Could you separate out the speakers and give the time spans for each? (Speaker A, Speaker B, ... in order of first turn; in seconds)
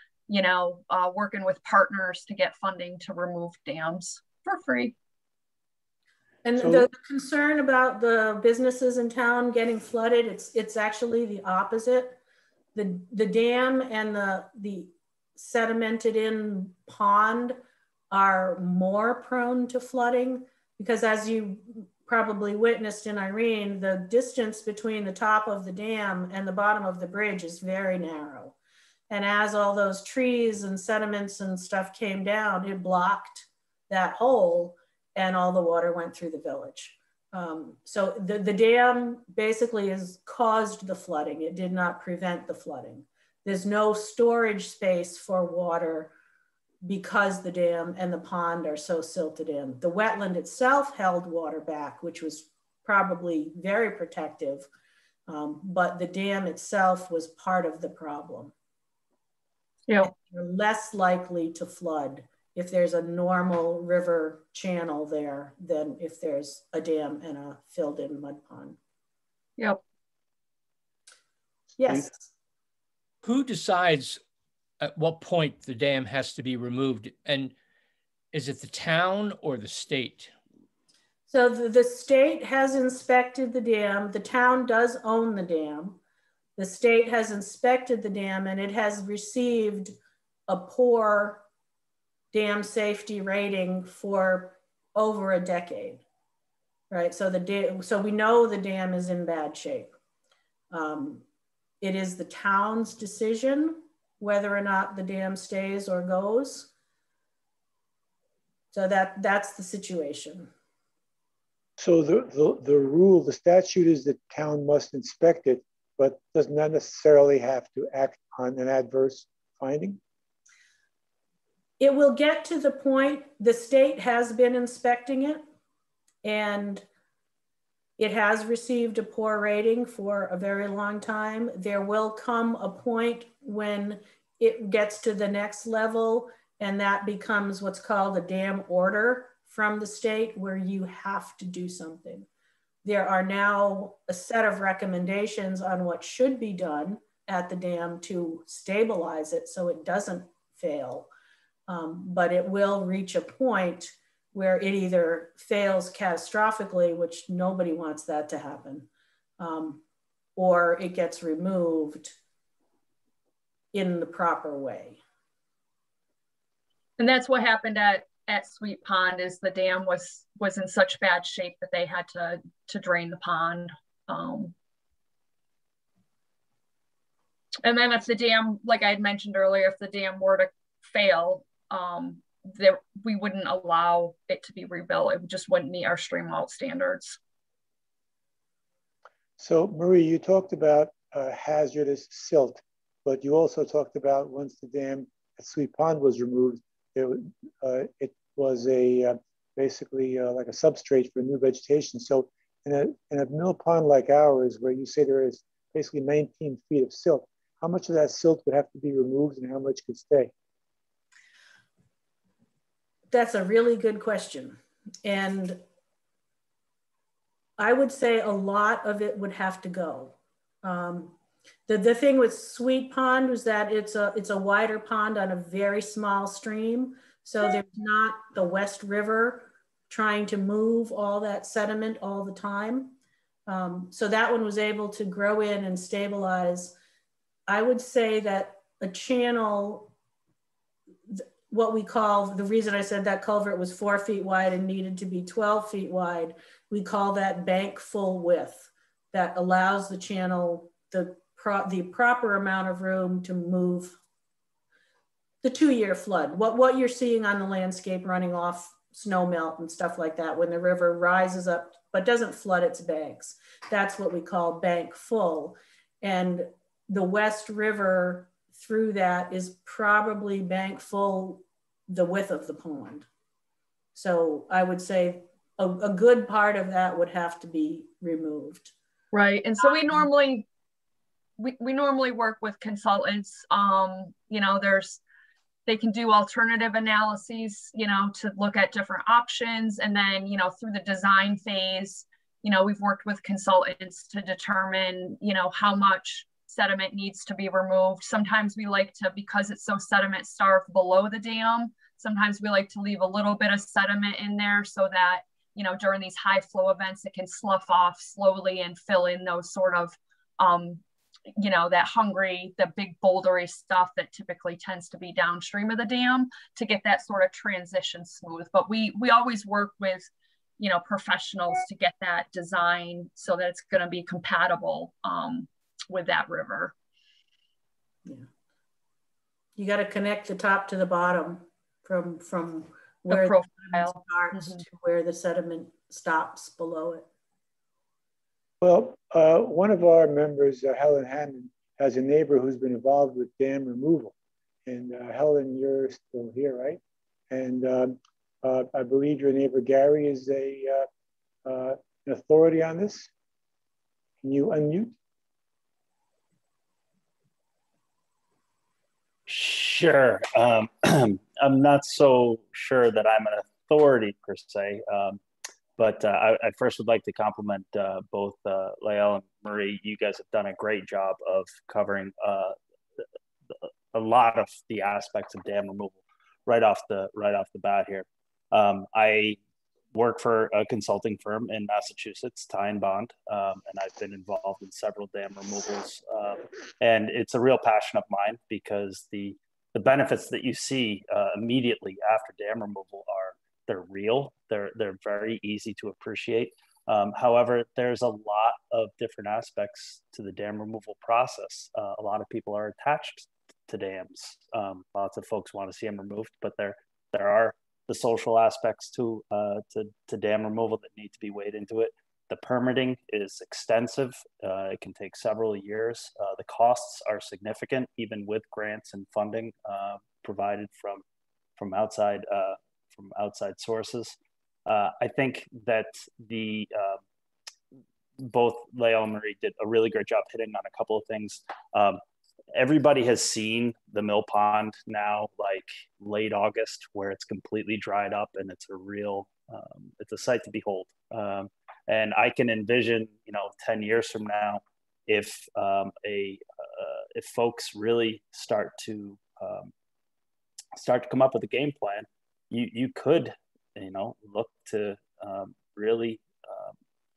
Speaker A: 0.3-5.0, 167.0-174.6, 177.6-187.2, 279.1-280.5, 281.4-285.0, 285.7-310.8, 311.3-326.8, 333.1-334.6
Speaker B: 6.4-12.2, 12.8-17.6, 18.1-28.6, 29.1-46.1, 46.8-54.7, 55.3-58.5, 60.0-68.8, 71.8-72.3, 81.3-86.0, 86.6-90.0, 90.5-91.5, 92.3-96.0, 96.9-99.9, 100.7-101.2, 101.8-106.7, 108.7-110.5, 121.8-125.4, 126.2-126.8, 128.0-142.3, 142.8-151.1, 151.7-158.9, 159.4-159.8, 160.4-162.2, 163.7-165.0, 213.1-215.6, 217.6-221.2, 221.7-232.9, 233.5-236.8, 237.5-239.9, 241.1-254.0, 255.4-273.1, 273.9-278.7, 279.6-280.1, 329.6-337.1
Speaker C: 6.6-6.9, 111.8-120.0, 189.4-210.3, 338.6-344.1, 344.7-346.8, 347.3-350.9, 351.4-353.1, 354.2-354.9
Speaker D: 73.2-74.2, 74.8-77.5, 78.3-80.3
Speaker E: 359.3-365.2, 365.8-372.6, 373.6-379.4, 379.9-421.0, 421.6-427.0, 428.2-432.0, 432.5-449.7, 450.8-456.7